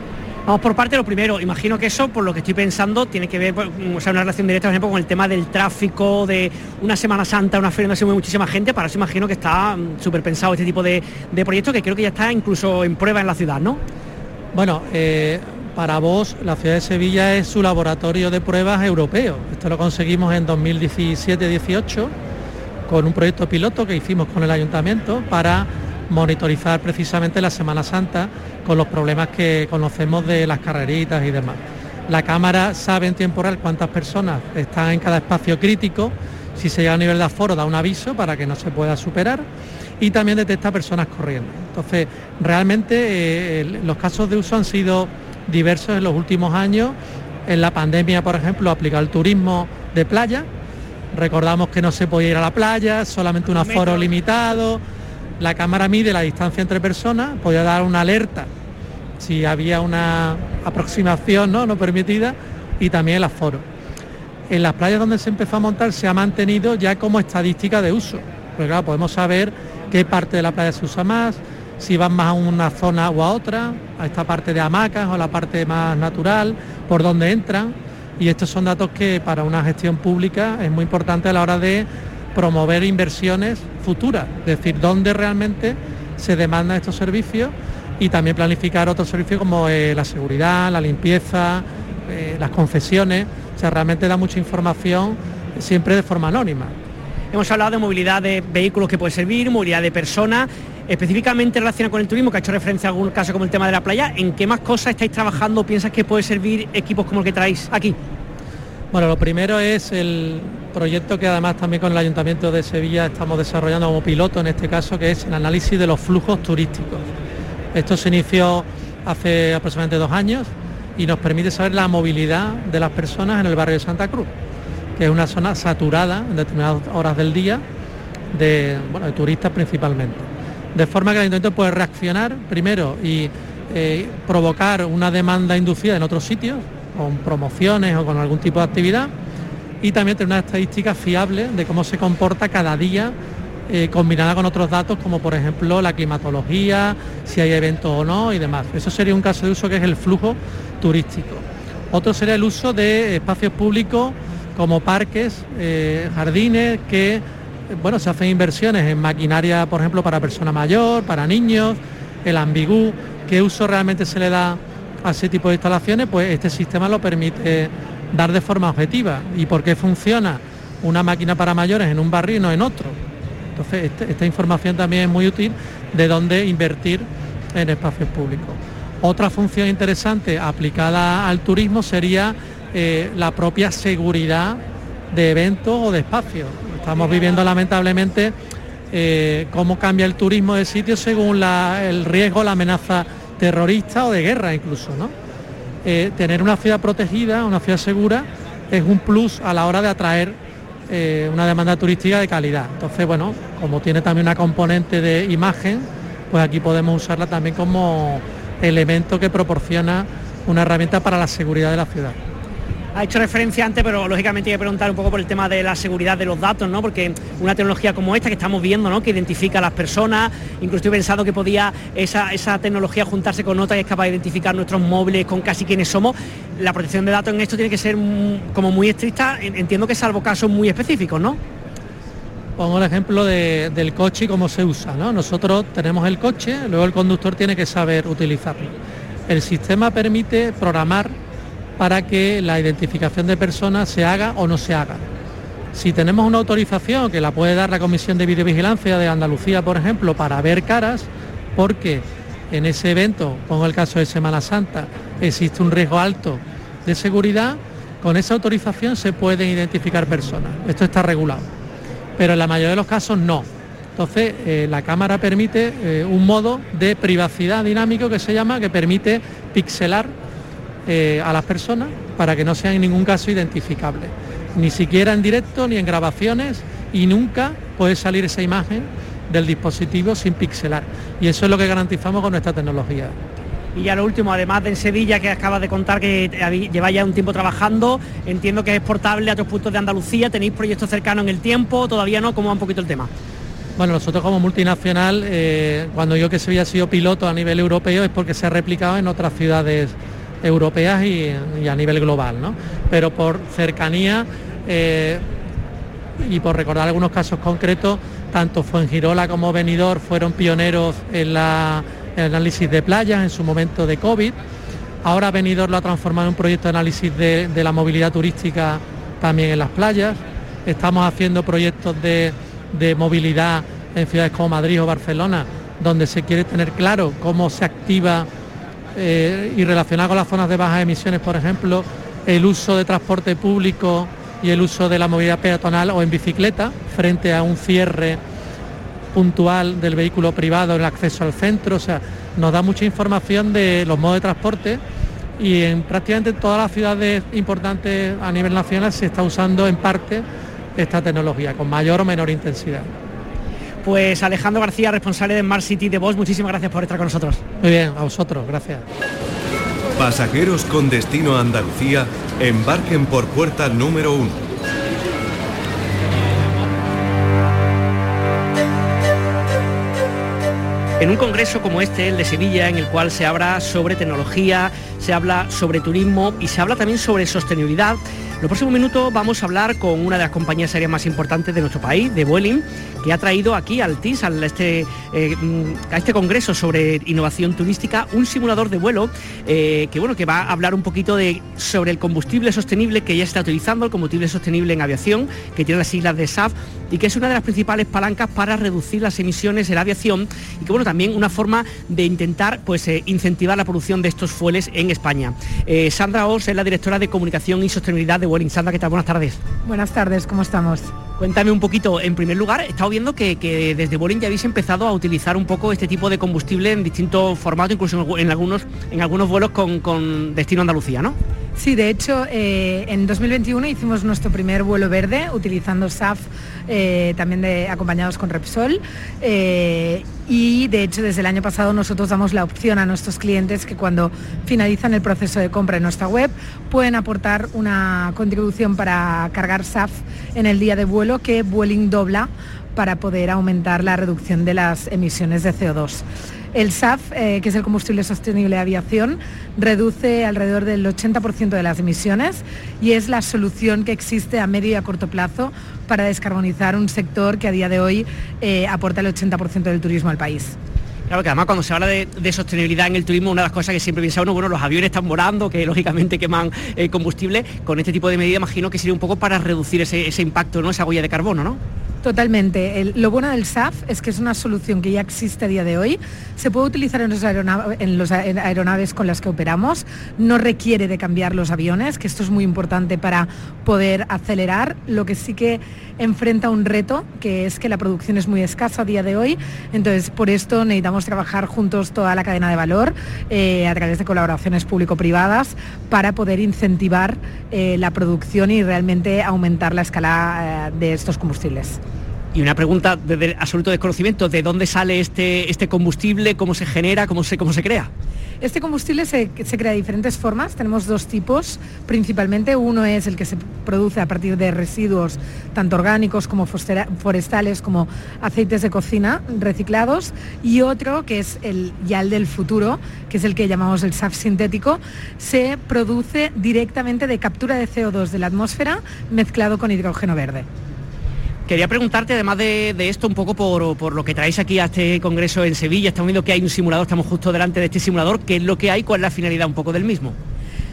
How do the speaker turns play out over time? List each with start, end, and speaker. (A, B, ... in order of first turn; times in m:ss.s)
0:00.5-0:13.8 A
0:14.5-0:22.1 B
0:22.9-0:39.4 B
0:40.0-0:47.0 B
0:47.5-0:50.5 B
0:51.1-0:54.8 B
0:53.5-0:54.1 A
0:55.4-0:58.5 B
0:59.2-1:03.6 B
1:04.5-1:36.7 B
1:37.3-1:48.0 A
1:48.9-1:57.1 B
1:57.7-2:04.3 B
2:05.0-2:07.6 B
2:08.3-2:19.1 B
2:19.8-2:23.2 B
2:23.7-2:53.0 B
2:53.6-3:04.6 B
3:05.1-3:08.3 B
3:08.9-3:15.1 B
3:15.8-3:20.4 B
3:20.9-3:32.2 B
3:33.0-3:51.4 A
3:52.6-3:58.7 B
3:59.3-4:01.1 B
4:01.8-4:05.0 B
4:05.7-4:21.5 B
4:22.2-4:30.1 B
4:30.9-4:43.2 B
4:43.8-4:53.1 A
4:53.8-5:05.2 B
5:06.2-5:14.4 B
5:15.0-5:28.3 B
5:29.0-5:38.2 B
5:39.1-5:44.8 B
5:45.4-5:50.2 B
5:50.8-5:52.9 B
5:53.8-5:57.4 A
5:57.6-5:58.8 B
6:00.0-6:04.4 C
6:11.0-6:49.4 A
6:49.6-6:50.9 D
6:51.2-7:01.2 A
7:01.6-7:40.6 D
7:41.1-7:51.6 A
7:52.0-8:21.8 D
8:22.3-8:27.9 A
8:28.4-8:50.5 D
8:51.5-9:00.2 A